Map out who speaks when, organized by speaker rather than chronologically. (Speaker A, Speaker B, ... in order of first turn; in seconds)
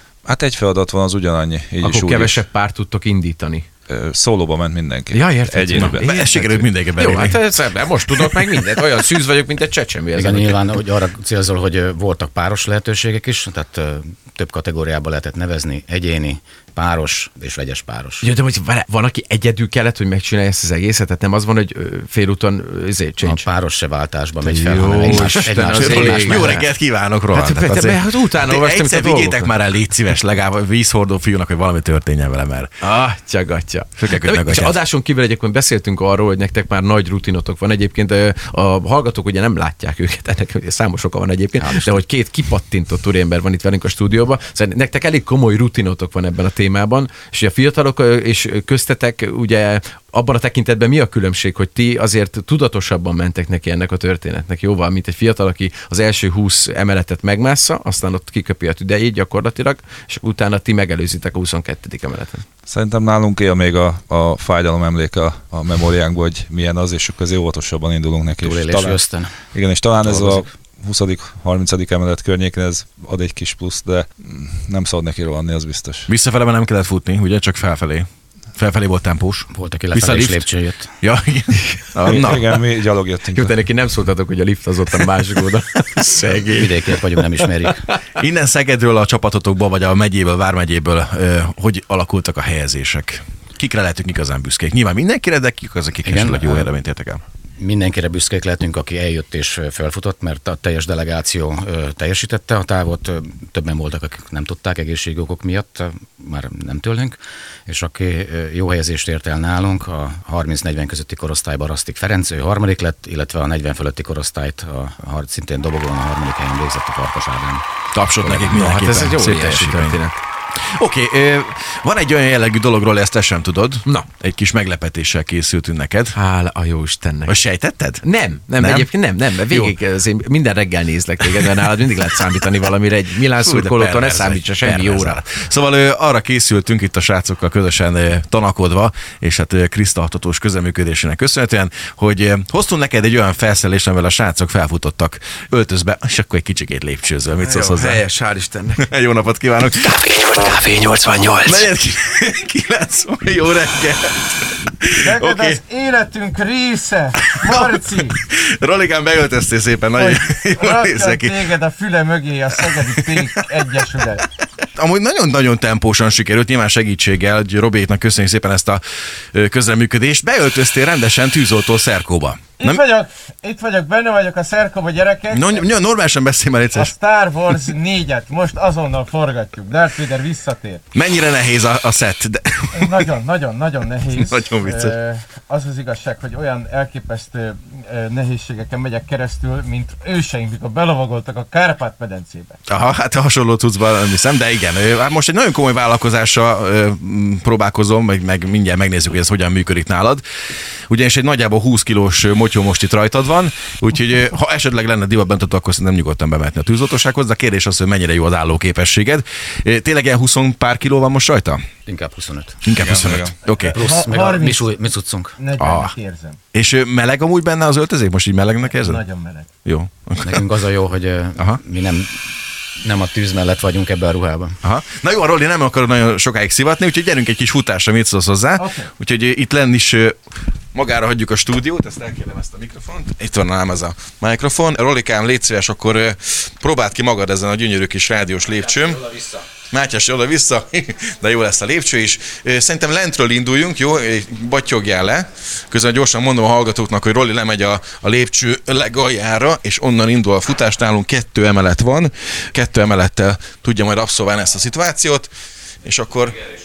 Speaker A: 0.2-2.4, 3.9-6.1, 62.7-69.0, 69.5-76.1, 82.1-83.5, 212.8-213.3
Speaker B: 1.8-3.7, 5.1-10.6, 18.2-23.5, 24.4-26.7, 27.3-29.6, 32.8-62.4, 83.3-87.0, 118.5-120.2, 126.1-127.3, 128.0-135.2, 147.4-148.8, 149.8-151.7
Speaker C: 5.8-7.4, 25.2-32.7, 34.0-34.8, 76.1-80.5, 81.0-82.4, 88.2-97.2, 117.9-120.0, 120.6-126.2, 127.3-128.0, 128.6-128.9, 129.5-129.7, 133.4-148.0, 148.8-149.9, 151.4-155.6, 157.3-161.5, 162.7-163.4, 164.7-172.8, 175.3-176.9, 180.9-183.1, 184.1-184.9, 192.7-200.2, 200.9-211.6, 212.6-213.9, 215.6-215.9, 216.5-219.0, 219.6-220.4, 224.6-230.2, 230.7-255.3, 255.8-256.4
Speaker D: 10.2-18.3, 23.2-26.6, 41.6-42.0, 68.4-69.3, 70.2-70.4, 79.5-80.9, 86.4-87.8, 96.0-96.7, 97.6-117.6, 118.2-118.5, 211.8-212.6, 213.7-215.4, 220.2-222.1, 222.8-224.6
Speaker E: 155.0-158.1, 160.0-164.2, 172.6-175.7, 176.7-180.8, 182.8-192.6, 213.7-214.7, 215.4-216.4, 218.7-219.5, 228.6-228.9